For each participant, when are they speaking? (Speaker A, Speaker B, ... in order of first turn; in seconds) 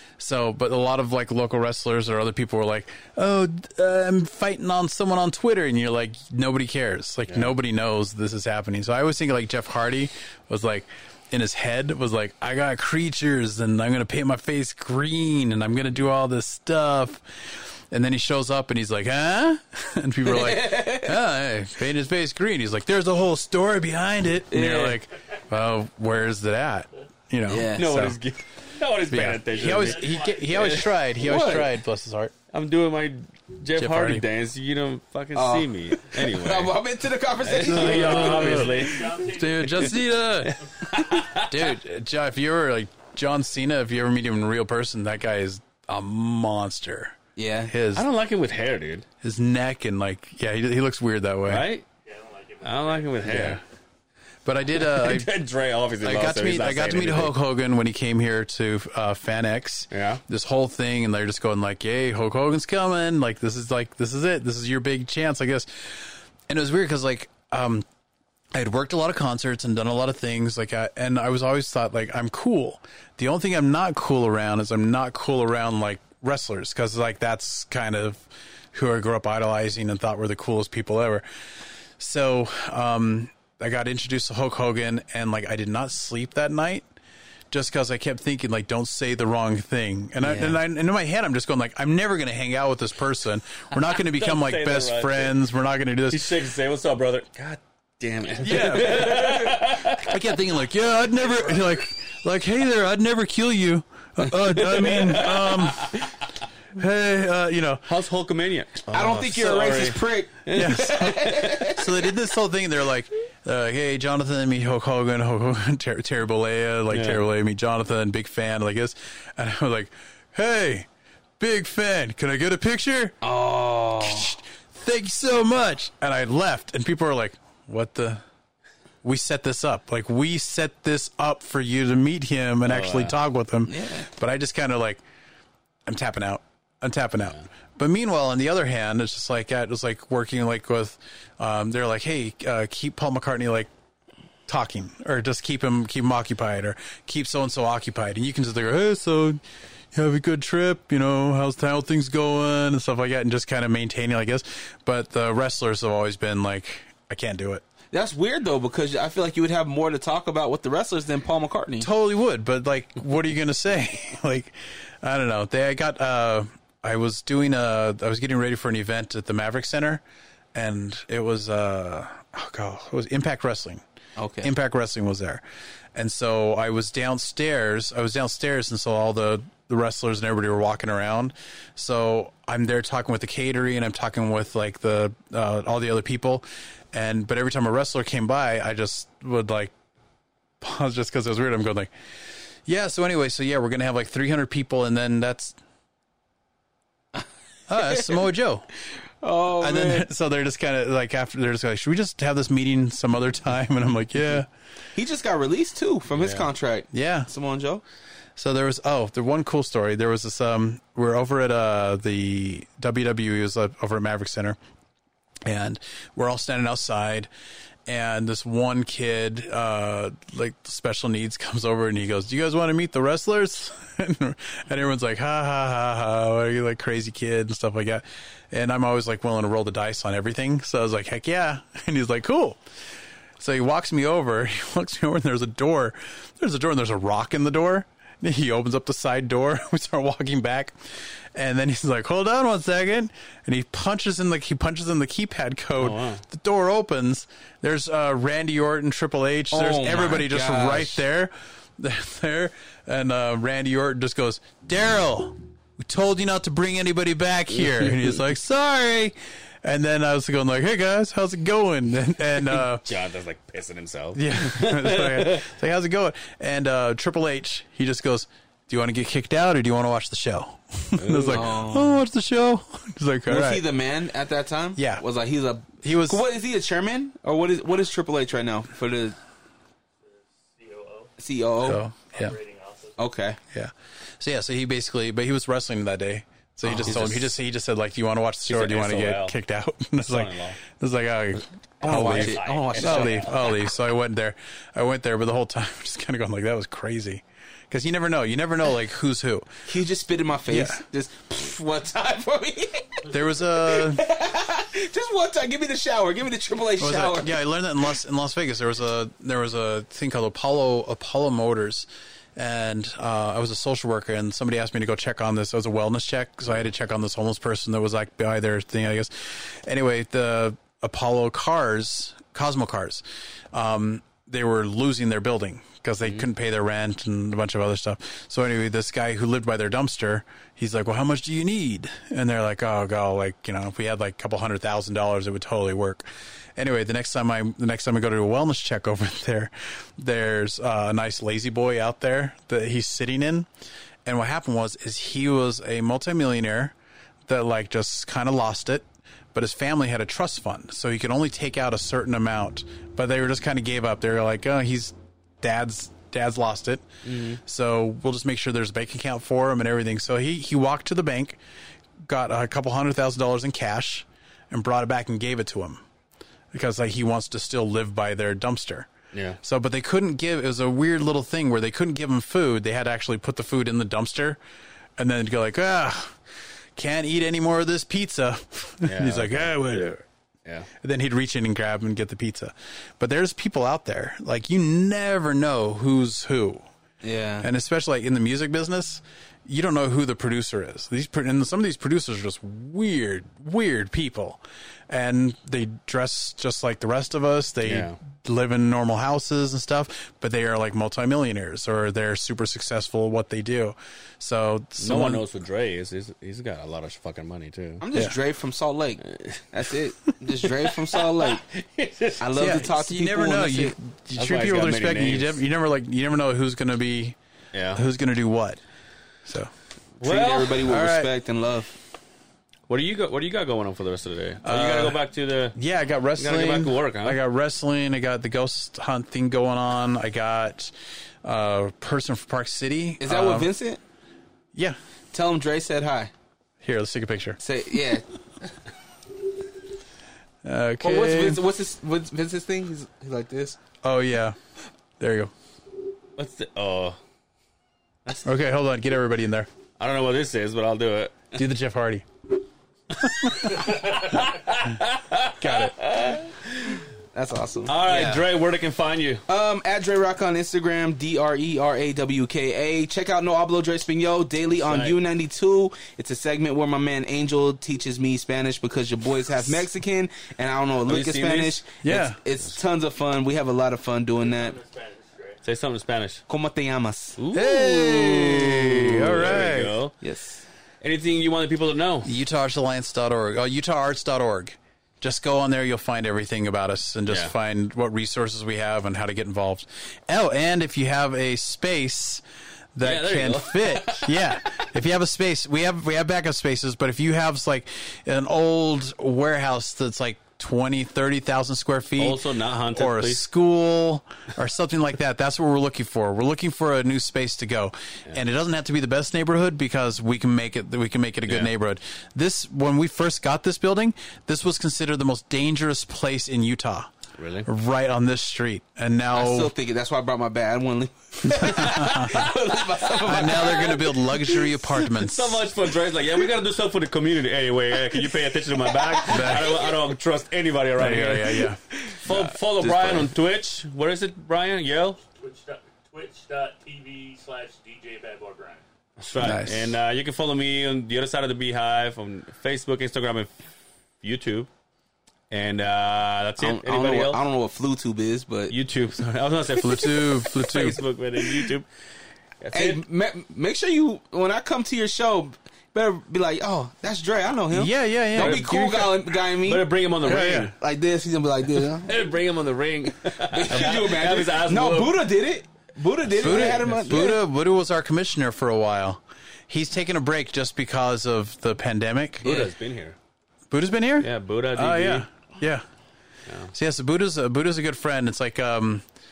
Speaker A: 0.2-28.2, 29.1-32.3, 33.8-34.2, 37.6-40.6, 41.4-47.2, 47.7-48.1, 49.2-51.7, 53.2-53.6, 54.5-55.3, 56.0-67.8, 68.5-81.2, 82.0-86.9, 87.5-96.3, 98.4-106.1, 106.8-107.9, 110.5-120.9, 121.4-123.2, 124.0-128.2, 129.0-135.0, 135.9-143.7, 144.5-149.4, 149.9-157.6, 161.8-170.0, 170.5-173.8, 174.4-175.4, 175.9-189.7, 190.6-191.9, 192.7-195.6, 197.7-198.7, 199.6-204.5, 206.9-207.3, 208.4-214.6, 215.5-217.3, 217.9-232.6, 233.4-262.9, 264.1-273.6, 274.8-275.1, 275.8-276.2, 281.6-282.4, 283.5-299.5, 300.5-300.8, 303.1-304.0, 306.8-343.5, 344.1-346.7, 347.3-361.4, 362.0-365.8, 366.5-368.9, 369.4-374.4, 375.0-380.0, 380.8-386.6, 387.4-405.2, 412.4-417.2, 417.7-418.6, 419.2-419.5, 420.6-421.1, 424.4-425.0, 425.6-433.5, 436.6-437.4, 440.4-441.4, 443.8-444.4, 445.0-445.3, 448.2-449.5, 451.4-452.1, 453.0-453.9, 455.4-455.8, 471.8-472.2, 477.3-479.8, 482.0-492.2, 492.8-502.2, 502.7-516.9, 517.4-519.5, 521.3-522.3, 523.0-525.4, 529.1-529.5, 530.8-533.0, 539.2-539.7, 549.6-550.8, 557.5-559.0, 560.0-560.5, 566.2-572.3, 573.5-575.6, 576.5-578.9
Speaker B: 20.2-21.1, 24.5-25.0, 27.5-27.9, 31.2-31.7, 35.3-38.9, 47.4-47.7, 90.2-90.5, 98.6-99.4, 108.9-111.8, 123.2-124.3, 133.7-134.1, 157.9-161.9, 174.2-174.5, 197.8-198.1, 199.2-200.1, 204.9-207.8, 249.5-251.0, 271.3-272.0, 273.3-279.2, 281.2-281.8, 283.0-283.4, 286.6-287.1, 291.8-293.5, 299.7-307.4, 387.0-387.5, 407.8-411.4, 412.2-413.8, 420.0-421.8, 433.0-433.8, 435.1-436.1, 437.4-438.1, 440.8-443.6, 457.1-458.2, 459.3-474.6, 476.3-477.7, 479.0-479.4, 480.0-480.4, 519.1-524.1, 528.7-529.7, 546.4-548.5, 552.5-559.7, 560.5-562.0, 563.1-567.2, 572.2-572.5
Speaker C: 27.8-31.0, 32.5-36.8, 37.4-39.9, 40.5-41.7, 47.9-49.1, 51.5-51.9, 52.6-53.6, 54.8-57.3, 59.9-60.2, 94.0-95.3, 96.1-100.2, 104.3-106.1, 107.9-111.7, 116.9-117.2, 132.7-133.2, 206.2-206.5, 245.8-246.2, 262.6-265.5, 270.9-271.5, 286.8-287.3, 288.5-289.4, 290.0-290.6, 291.8-293.5, 357.1-357.4, 369.1-369.4, 378.9-379.9, 397.6-398.0, 404.8-407.8, 409.1-409.4, 410.6-412.2, 414.2-415.4, 417.5-417.8, 420.0-420.7, 422.7-425.6, 426.2-427.2, 446.2-447.0, 449.8-451.4, 453.2-456.9, 457.7-459.2, 464.6-465.0, 470.9-471.6, 475.4-476.2, 477.2-479.9, 480.8-482.1, 492.8-494.7, 502.0-503.2, 517.2-517.5, 524.8-535.0, 539.0-543.5, 544.0-544.5, 545.3-547.2, 548.5-551.7, 552.4-552.8, 558.2-560.5, 561.7-565.1, 566.1-566.8, 572.2-573.0, 574.0-575.1
Speaker D: 29.6-30.5, 38.6-39.9, 52.1-53.2, 280.4-281.1, 282.1-283.0, 474.2-475.4, 535.1-538.6